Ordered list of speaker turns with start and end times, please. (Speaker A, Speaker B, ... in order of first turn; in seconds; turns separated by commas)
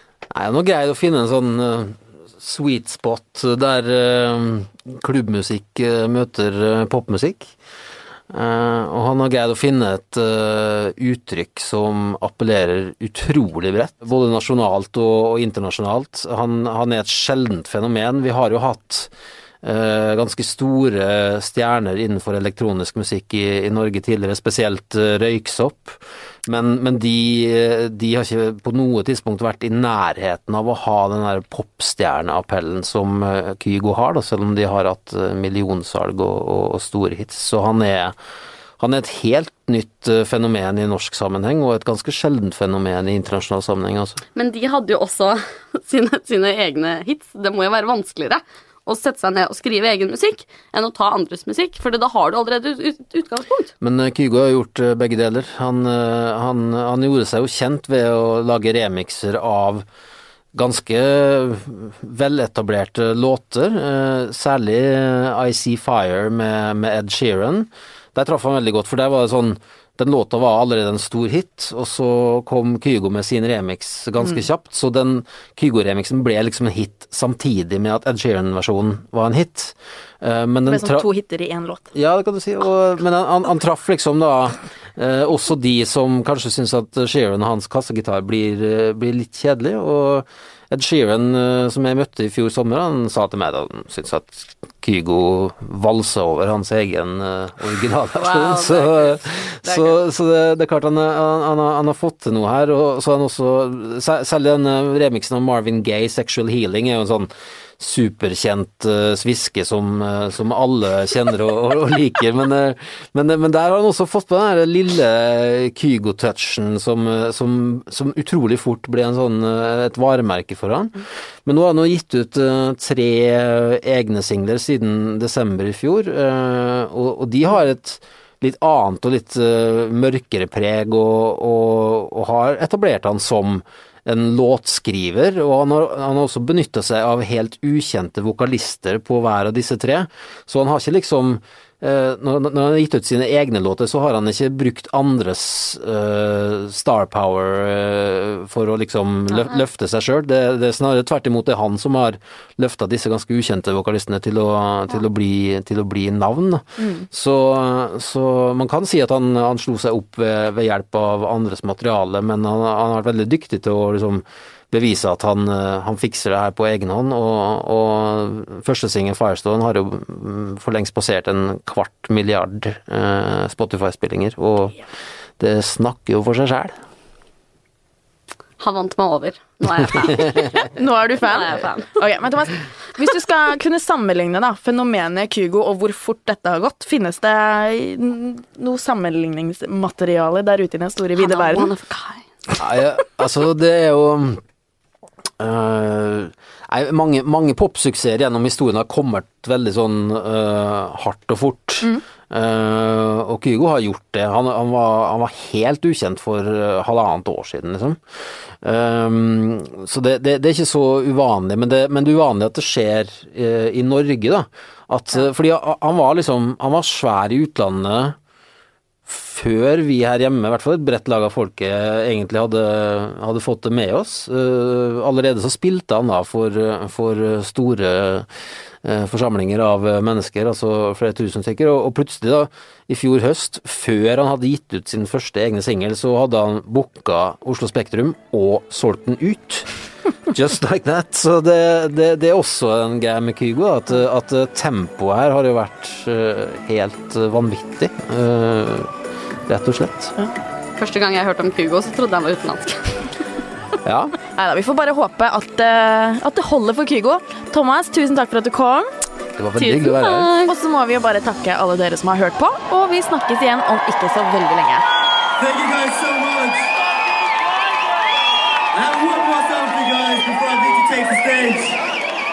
Speaker A: 0.3-7.5, Speaker A: 8.3-19.1, Speaker A: 19.6-38.1, Speaker A: 38.8-44.2, Speaker B: 44.3-53.7, Speaker A: 53.8-59.9, Speaker A: 60.5-81.0, Speaker C: 80.7-81.9, Speaker A: 81.9-174.8, Speaker B: 98.2-100.0, Speaker A: 175.4-176.7, Speaker B: 178.6-180.6, Speaker C: 180.7-191.7, Speaker B: 181.2-181.9, Speaker B: 191.1-192.2, Speaker A: 192.6-194.4, Speaker A: 195.4-208.0, Speaker A: 208.6-218.2, Speaker A: 219.1-228.3, Speaker A: 228.8-239.7, Speaker A: 240.3-248.9, Speaker A: 249.5-250.1, Speaker B: 250.8-253.1, Speaker A: 253.8-254.2, Speaker C: 254.3-258.9, Speaker A: 259.4-260.3, Speaker B: 259.6-260.6, Speaker C: 260.4-264.9, Speaker D: 265.4-266.6, Speaker D: 268.8-271.7